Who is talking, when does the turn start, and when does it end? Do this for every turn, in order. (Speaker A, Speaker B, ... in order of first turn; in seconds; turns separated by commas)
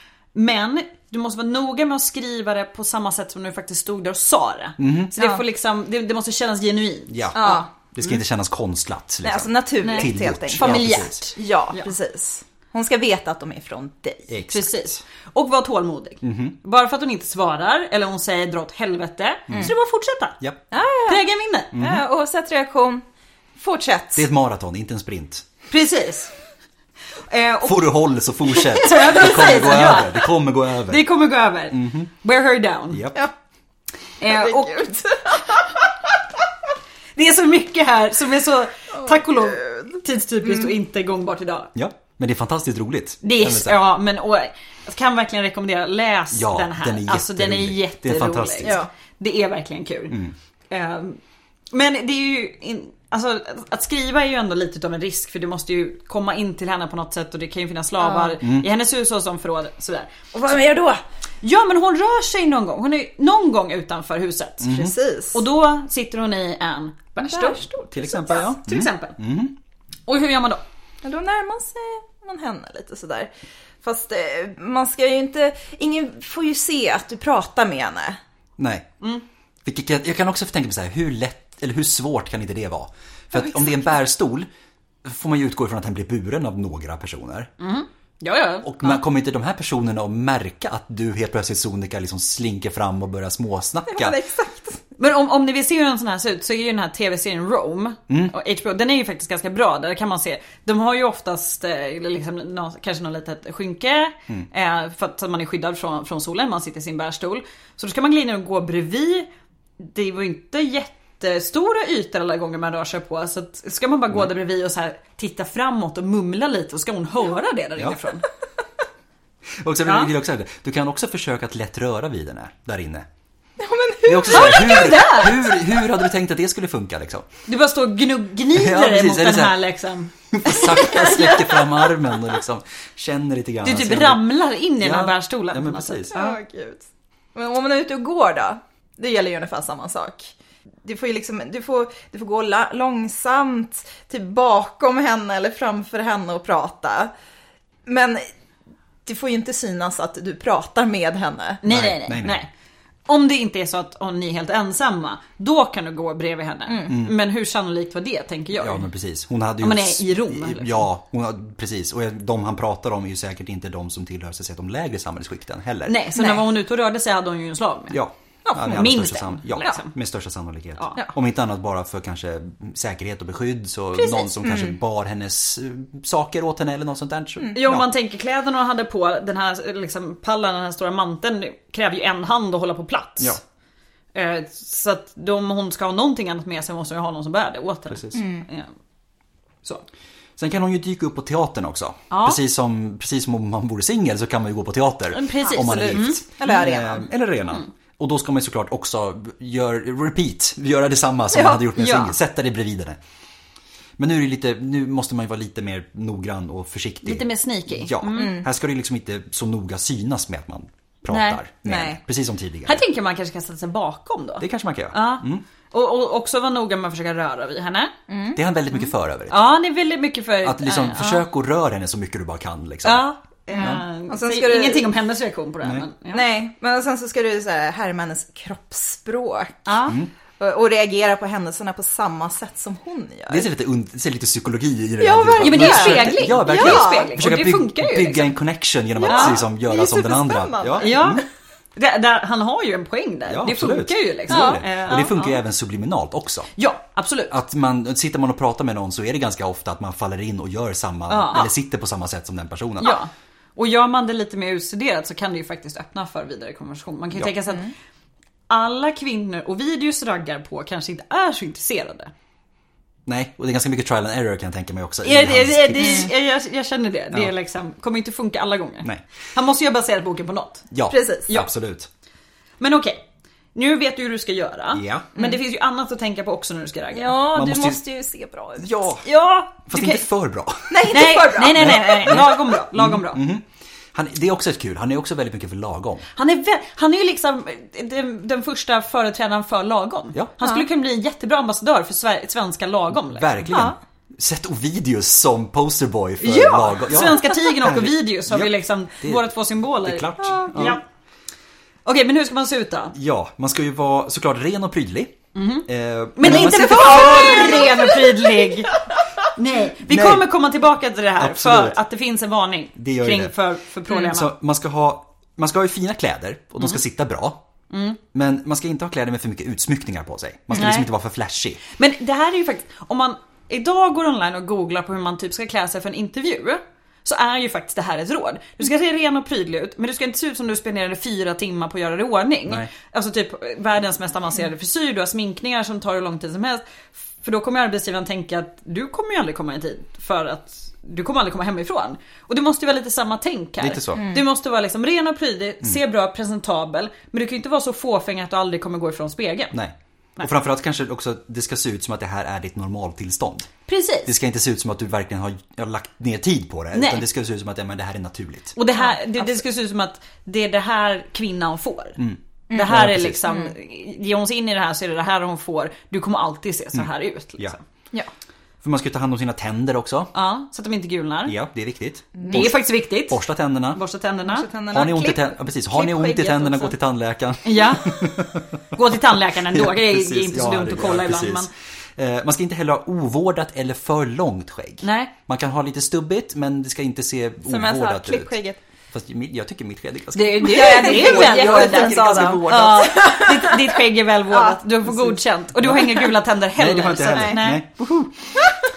Speaker A: 0.3-7.6, Speaker B: 4.8-5.1, Speaker B: 7.1-11.2, Speaker C: 7.3-7.7, Speaker C: 9.2-14.3, Speaker A: 9.8-11.9, Speaker B: 14.3-15.0, Speaker A: 14.5-20.4, Speaker B: 16.2-16.6, Speaker C: 20.7-23.0, Speaker A: 21.1-21.8, Speaker B: 21.7-22.0, Speaker C: 23.6-24.3, Speaker B: 24.1-25.4, Speaker A: 25.7-26.3, Speaker A: 27.3-27.8, Speaker B: 27.6-31.1, Speaker A: 28.5-30.3, Speaker A: 30.9-33.0, Speaker B: 31.7-32.1, Speaker B: 32.9-33.2, Speaker A: 34.2-34.9, Speaker C: 34.2-35.9, Speaker A: 37.1-41.7, Speaker C: 39.0-40.7, Speaker B: 41.7-43.8, Speaker A: 43.2-51.2, Speaker B: 46.3-48.8, Speaker C: 48.6-48.9, Speaker B: 50.1-50.3, Speaker A: 51.7-60.1, Speaker C: 58.0-58.3, Speaker B: 58.4-58.7, Speaker C: 60.3-61.0, Speaker A: 61.4-67.7, Speaker B: 64.6-64.9, Speaker C: 64.7-65.4, Speaker C: 67.2-68.5, Speaker B: 67.9-69.5, Speaker A: 68.3-69.2, Speaker A: 70.1-70.6, Speaker C: 71.0-73.3, Speaker C: 73.8-78.2, Speaker B: 78.6-78.9, Speaker B: 79.6-84.5, Speaker B: 85.0-87.5, Speaker A: 87.6-89.0, Speaker B: 88.6-94.2, Speaker C: 93.9-94.8, Speaker A: 95.0-109.3, Speaker A: 109.8-118.2, Speaker B: 119.6-123.1, Speaker A: 119.8-120.1, Speaker C: 123.6-125.0, Speaker B: 124.0-127.3, Speaker A: 124.3-125.5, Speaker A: 127.5-131.1, Speaker B: 128.5-129.6, Speaker B: 130.3-134.2, Speaker C: 130.8-131.6, Speaker A: 133.6-136.3, Speaker B: 134.8-136.3, Speaker C: 136.1-140.3, Speaker C: 140.8-147.1, Speaker C: 147.8-148.2, Speaker C: 149.1-151.6, Speaker A: 151.6-152.5, Speaker B: 151.7-152.4, Speaker A: 153.1-158.8, Speaker B: 156.9-157.1, Speaker B: 158.6-166.0, Speaker A: 159.6-160.8, Speaker A: 165.8-168.0, Speaker C: 166.2-166.4, Speaker B: 167.9-177.9, Speaker C: 168.4-168.8, Speaker A: 168.6-169.9, Speaker A: 170.8-171.0, Speaker A: 174.0-174.3, Speaker C: 174.4-174.7, Speaker A: 177.5-183.4, Speaker A: 184.1-188.7, Speaker B: 187.9-188.2, Speaker C: 188.1-188.4, Speaker B: 190.4-203.0, Speaker A: 192.1-192.4, Speaker A: 195.1-196.2, Speaker C: 195.4-197.1, Speaker C: 201.3-202.1, Speaker B: 204.0-212.8, Speaker A: 207.0-208.4, Speaker C: 208.1-208.4, Speaker A: 211.1-211.4, Speaker C: 211.6-212.0, Speaker A: 212.7-217.9, Speaker B: 214.4-215.4, Speaker C: 218.1-218.4, Speaker B: 218.3-219.4, Speaker A: 219.3-221.2, Speaker B: 220.4-223.0, Speaker A: 222.8-226.2, Speaker C: 223.5-224.9, Speaker B: 223.6-223.8, Speaker C: 226.1-229.8, Speaker A: 229.7-230.0, Speaker C: 230.4-233.5, Speaker B: 233.3-241.2, Speaker C: 235.0-237.2, Speaker A: 235.4-238.3, Speaker C: 239.0-241.2, Speaker A: 239.1-239.4, Speaker A: 240.8-245.4, Speaker B: 243.3-246.5, Speaker C: 244.3-245.1, Speaker A: 246.6-247.4, Speaker B: 247.3-253.0, Speaker A: 251.1-251.5, Speaker A: 252.8-257.7, Speaker A: 258.5-262.1, Speaker B: 263.1-266.1, Speaker A: 265.0-270.7, Speaker C: 265.8-266.1, Speaker B: 270.7-271.9, Speaker C: 270.9-271.3, Speaker A: 272.6-277.1, Speaker B: 274.7-275.1, Speaker C: 276.9-278.9, Speaker B: 277.3-277.8, Speaker B: 278.6-279.0, Speaker A: 279.0-280.0, Speaker B: 279.7-286.1, Speaker C: 280.7-282.4, Speaker A: 280.9-283.2, Speaker A: 286.1-293.4, Speaker B: 292.9-299.2, Speaker C: 293.5-293.8, Speaker A: 296.2-300.8, Speaker B: 299.8-300.8, Speaker C: 300.2-300.7, Speaker A: 301.8-302.9, Speaker B: 302.9-307.9, Speaker A: 305.3-308.8, Speaker C: 306.4-308.2, Speaker A: 309.3-314.3, Speaker B: 309.9-310.3, Speaker B: 311.2-311.8, Speaker B: 312.8-313.3, Speaker B: 313.9-317.4, Speaker A: 317.7-318.0, Speaker B: 318.1-321.6, Speaker A: 320.5-320.9, Speaker A: 321.7-349.6, Speaker B: 343.6-344.1, Speaker C: 344.0-344.2, Speaker B: 349.5-353.5, Speaker A: 353.7-354.1, Speaker B: 354.0-358.6, Speaker A: 356.7-357.0, Speaker A: 358.5-367.6, Speaker B: 362.0-363.2, Speaker C: 363.2-363.5, Speaker B: 368.6-370.1, Speaker A: 370.1-371.4, Speaker B: 371.2-373.8, Speaker C: 372.1-372.5, Speaker A: 372.2-373.2, Speaker A: 373.7-374.5, Speaker C: 374.2-376.6, Speaker B: 374.7-378.6, Speaker A: 377.4-381.5, Speaker B: 379.4-388.3, Speaker A: 384.8-385.1, Speaker C: 387.4-388.6, Speaker B: 388.9-392.9, Speaker A: 390.1-397.9, Speaker C: 390.4-395.2, Speaker B: 395.6-395.9, Speaker B: 396.6-397.8, Speaker C: 397.1-397.4